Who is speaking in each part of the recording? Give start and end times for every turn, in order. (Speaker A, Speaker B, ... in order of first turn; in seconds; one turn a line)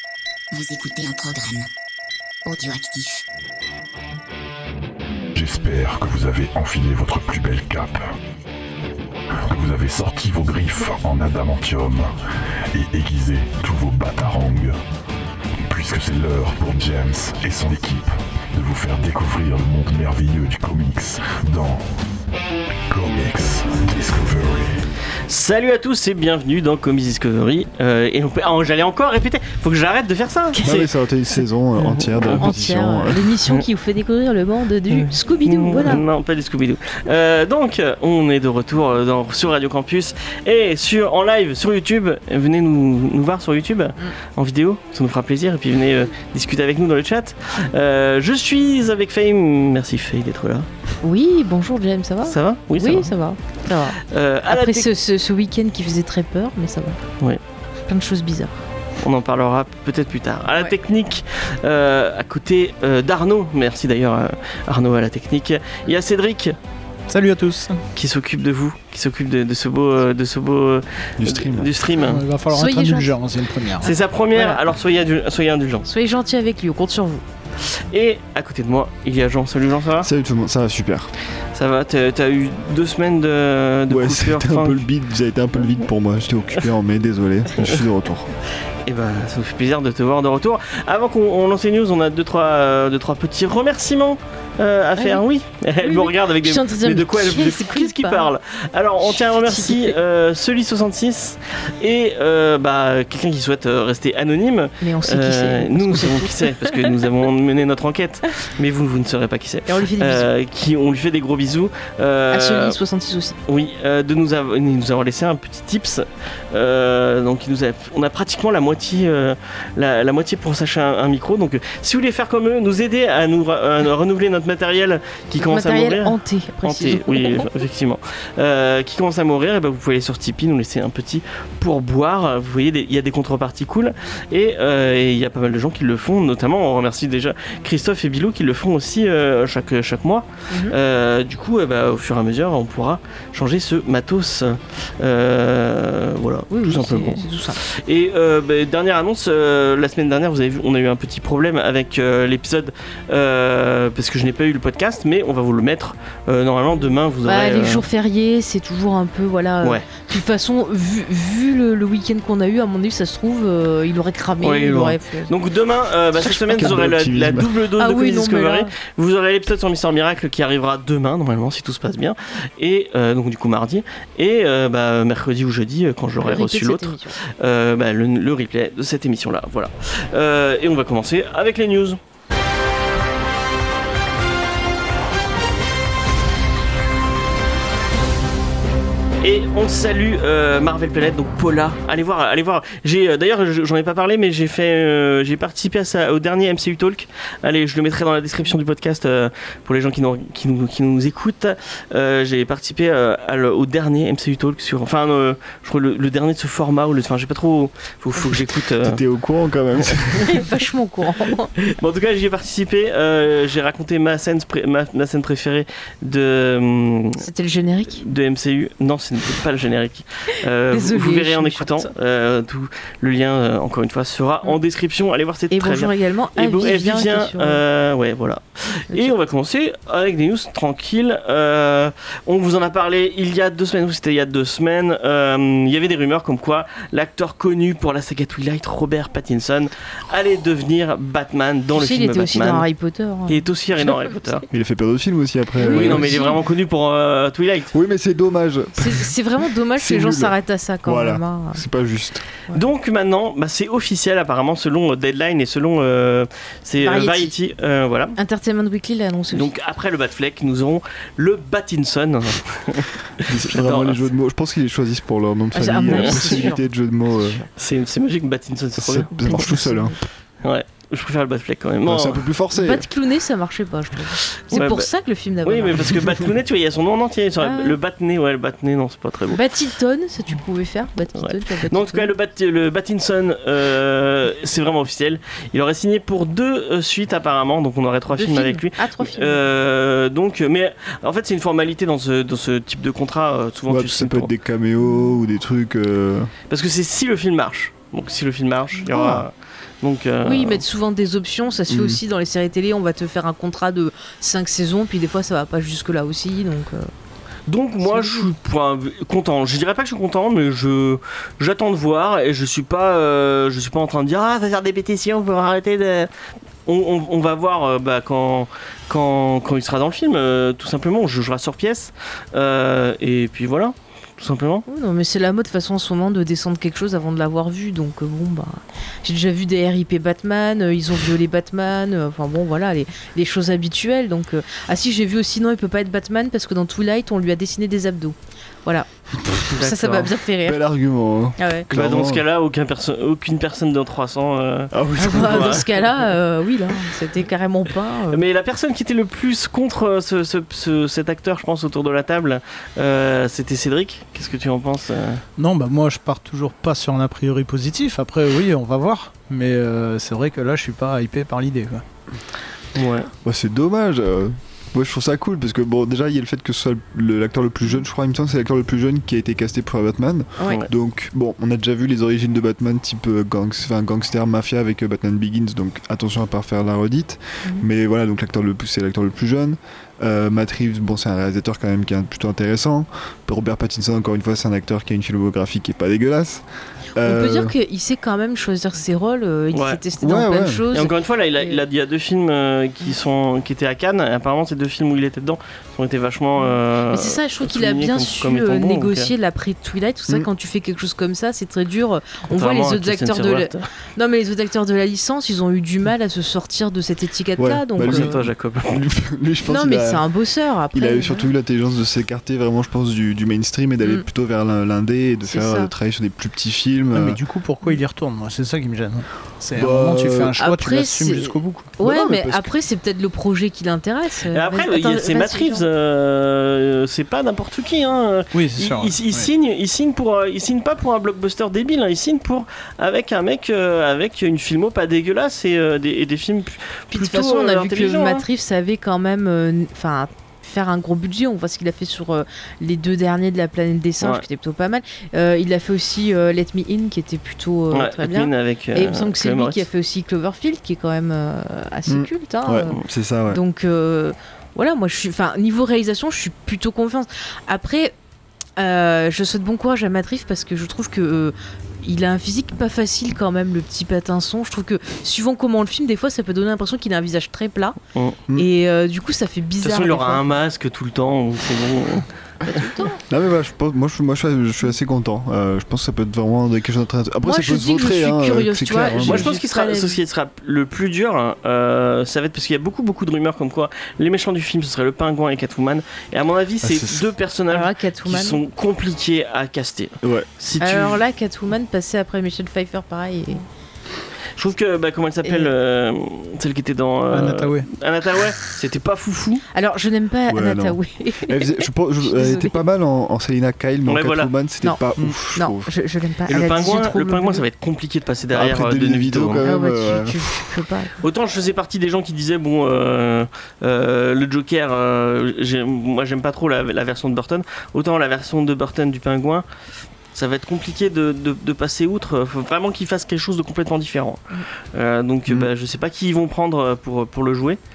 Speaker A: 0.5-1.7
Speaker A: 2.4-3.2
Speaker B: 5.3-8.1
Speaker B: 9.4-12.2
Speaker B: 12.7-14.8
Speaker B: 15.6-21.9
Speaker B: 22.9-24.8
Speaker C: 25.3-30.6
Speaker D: 30.5-30.9
Speaker E: 30.6-33.3
Speaker C: 31.8-32.5
Speaker D: 32.3-36.0
Speaker C: 34.9-50.7
Speaker D: 51.0-57.0
Speaker C: 52.3-53.1
Speaker C: 54.0-54.9
Speaker D: 57.9-58.5
Speaker C: 59.0-66.5
Speaker F: 67.1-67.8
Speaker C: 68.0-72.2
Speaker E: 71.2-71.8
Speaker F: 72.0-73.9
Speaker D: 72.5-73.2
Speaker D: 73.8-74.6
Speaker C: 73.8-75.8
Speaker D: 75.8-77.2
Speaker C: 77.8-80.1
Speaker E: 80.0-81.1
Speaker C: 81.5-84.8
Speaker E: 83.9-88.3
Speaker C: 88.8-112.8
Speaker D: 95.0-95.2
Speaker D: 95.8-98.3
Speaker D: 99.0-100.0
Speaker D: 104.8-106.9
Speaker D: 109.7-110.3
Speaker D: 112.3-113.4
Speaker C: 113.5-157.8
Speaker D: 125.4-127.5
Speaker D: 140.5-140.7
Speaker D: 146.5-147.6
Speaker D: 157.2-165.3
Speaker C: 164.4-182.0
Speaker E: 166.5-167.5
Speaker D: 167.8-168.7
Speaker D: 176.2-177.1
Speaker C: 189.2-209.0
Speaker E: 208.8-210.3
Speaker D: 210.2-211.5
Speaker C: 211.6-217.3
Speaker D: 217.2-218.0
Speaker C: 218.0-242.7
Speaker D: 220.7-221.9
Speaker D: 225.5-227.6
Speaker D: 241.7-243.9
Speaker C: 243.3-244.4
Speaker E: 244.5-246.2
Speaker D: 245.6-246.4
Speaker C: 245.7-247.7
Speaker E: 247.7-249.1
Speaker D: 248.8-251.6
Speaker E: 249.7-252.2
Speaker C: 252.5-258.2
Speaker D: 256.8-257.3
Speaker D: 258.2-259.5
Speaker C: 259.3-264.1
Speaker E: 263.2-267.4
Speaker D: 265.5-266.6
Speaker C: 265.9-266.5
Speaker C: 267.6-269.5
Speaker E: 268.8-269.9
Speaker D: 269.1-270.0
Speaker C: 270.4-272.3
Speaker E: 271.8-272.9
Speaker D: 272.5-276.1
Speaker C: 274.5-274.9
Speaker C: 275.4-279.4
Speaker D: 277.4-277.8
Speaker D: 279.3-282.1
Speaker C: 281.2-294.3
Speaker D: 288.1-289.4
Speaker E: 293.7-296.3
Speaker C: 296.5-300.6
Speaker E: 298.9-299.3
Speaker D: 300.2-306.9
Speaker E: 301.7-302.0
Speaker C: 307.5-316.1
Speaker D: 307.8-308.3
Speaker C: 316.6-324.6
Speaker D: 324.7-340.6
Speaker C: 339.5-340.1
Speaker E: 340.4-342.2
Speaker D: 341.4-341.6
Speaker C: 341.7-345.7
Speaker E: 344.7-345.7
Speaker D: 345.0-348.2
Speaker C: 348.1-355.2
Speaker F: 355.4-361.8
Speaker C: 362.7-363.1
Speaker E: 363.2-386.4
Speaker D: 370.4-370.6
Speaker E: 387.0-387.5
Speaker D: 387.0-391.6
Speaker C: 389.5-389.8
Speaker E: 390.0-390.6
Speaker C: 390.7-399.1
Speaker D: 396.4-408.2
Speaker C: 402.3-403.6
Speaker E: 407.4-410.0
Speaker C: 407.8-408.8
Speaker D: 409.5-411.3
Speaker E: 410.7-417.2
Speaker D: 415.2-415.7
Speaker F: 416.9-421.7
Speaker E: 419.5-420.4
Speaker D: 420.3-425.6
Speaker E: 421.8-422.5
Speaker C: 424.3-438.2
Speaker F: 428.3-429.3
Speaker D: 436.9-452.8
Speaker C: 447.7-449.6
Speaker E: 451.9-453.4
Speaker D: 453.3-457.9
Speaker D: 458.6-467.8
Speaker C: 467.9-468.2
Speaker D: 468.3-470.2
Speaker C: 469.6-472.1
Speaker D: 472.4-473.0
Speaker E: 473.1-479.3
Speaker D: 477.2-480.0
Speaker C: 479.0-491.0
Speaker E: 486.6-487.1
Speaker D: 487.5-488.4
Speaker E: 490.0-490.3
Speaker D: 490.6-493.4
Speaker C: 494.4-499.4
Speaker D: 495.2-495.5
Speaker F: 497.1-497.7
Speaker D: 499.5-502.6
Speaker E: 500.3-505.7
Speaker C: 503.9-504.3
Speaker D: 505.3-507.4
Speaker C: 506.3-509.4
Speaker E: 508.3-510.2
Speaker D: 509.4-511.0
Speaker C: 511.0-519.4
Speaker C: 520.1-527.6